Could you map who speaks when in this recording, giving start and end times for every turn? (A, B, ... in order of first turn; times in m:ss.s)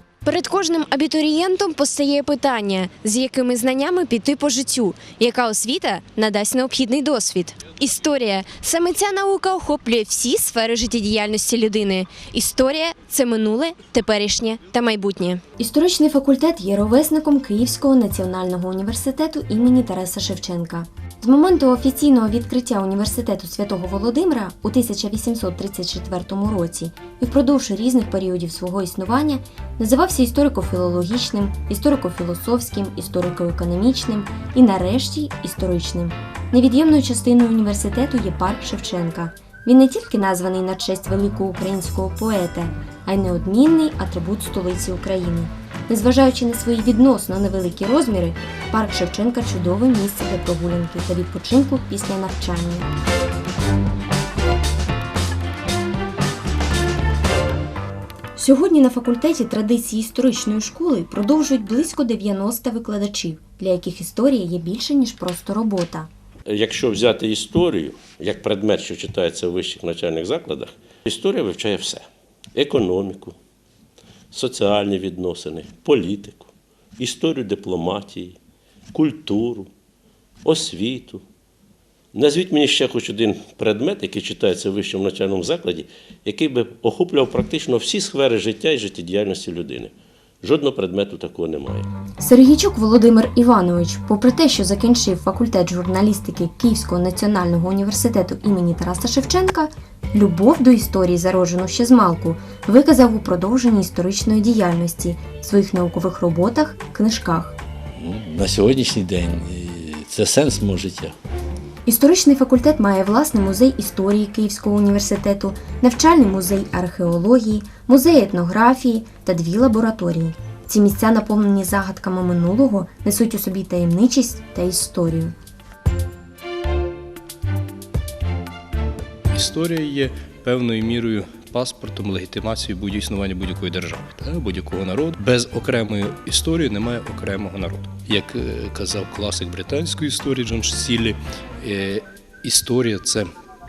0:00.2-0:15.4 A
0:15.6-0:52.9 B
0:58.4-1:06.1 B
1:06.5-1:12.0 C
1:12.5-1:13.4 C
1:14.3-1:18.4 C
1:18.9-1:19.7 C
1:20.4-1:21.2 C
1:22.1-1:31.9 C
1:32.2-1:47.6 B
1:48.0-1:51.1 D
1:51.8-2:05.3 B
2:09.3-2:23.3 E